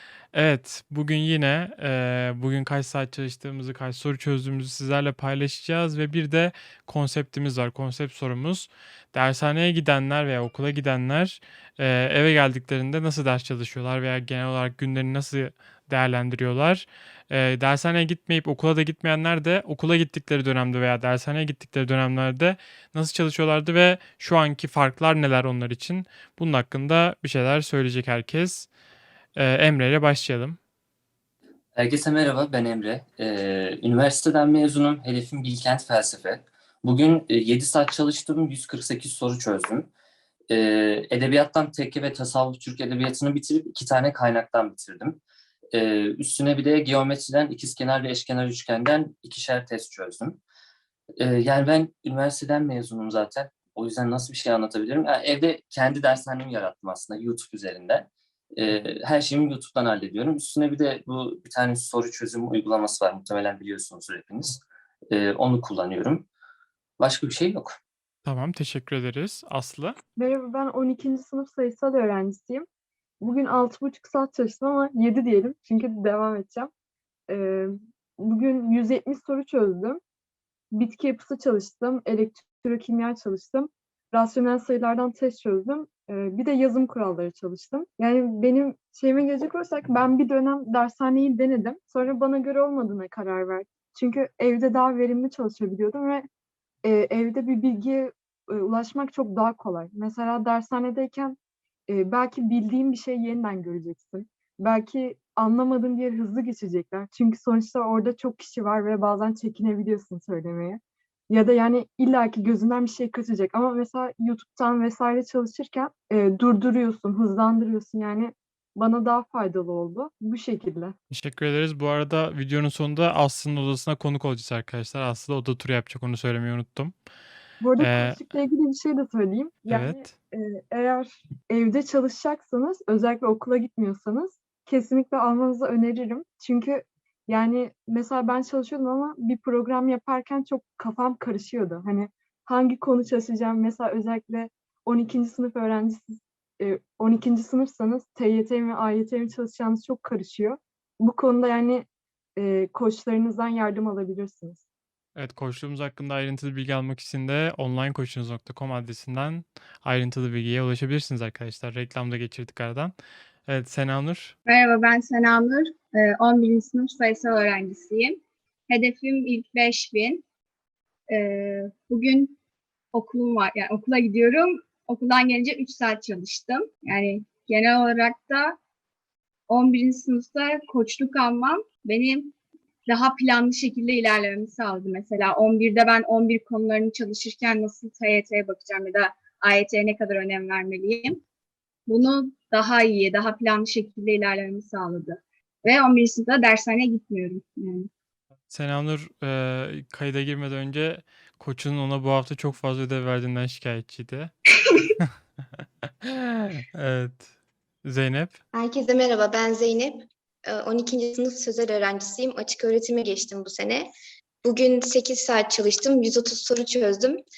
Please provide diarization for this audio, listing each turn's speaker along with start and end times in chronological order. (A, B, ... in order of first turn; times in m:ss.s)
0:00.3-0:28.7 A
0:29.4-0:30.6 A
0:31.8-0:39.9 B
0:40.5-0:45.2 B
0:45.7-0:50.4 B
0:51.2-1:06.3 B
1:07.0-1:07.8 B
1:08.2-1:10.0 A
1:10.2-1:12.7 C
1:13.2-1:16.7 C
1:17.3-1:20.0 C
1:20.7-1:36.3 C
1:36.8-1:41.4 C
1:41.9-2:01.0 C
2:01.1-2:07.0 A
2:07.6-2:34.6 C
2:07.8-2:08.2 A
2:09.7-2:10.1 A
2:35.2-2:43.0 A
2:43.5-2:44.3 A
2:44.5-2:50.2 D
2:51.1-2:52.4 D
2:52.9-2:58.6 D
2:59.5-3:02.4 D
3:02.9-3:11.2 D
3:11.9-3:17.9 D
3:18.5-3:24.3 A
3:26.0-3:27.3 A
3:27.8-3:28.4 A
3:28.6-3:33.9 E
3:34.4-3:37.2 E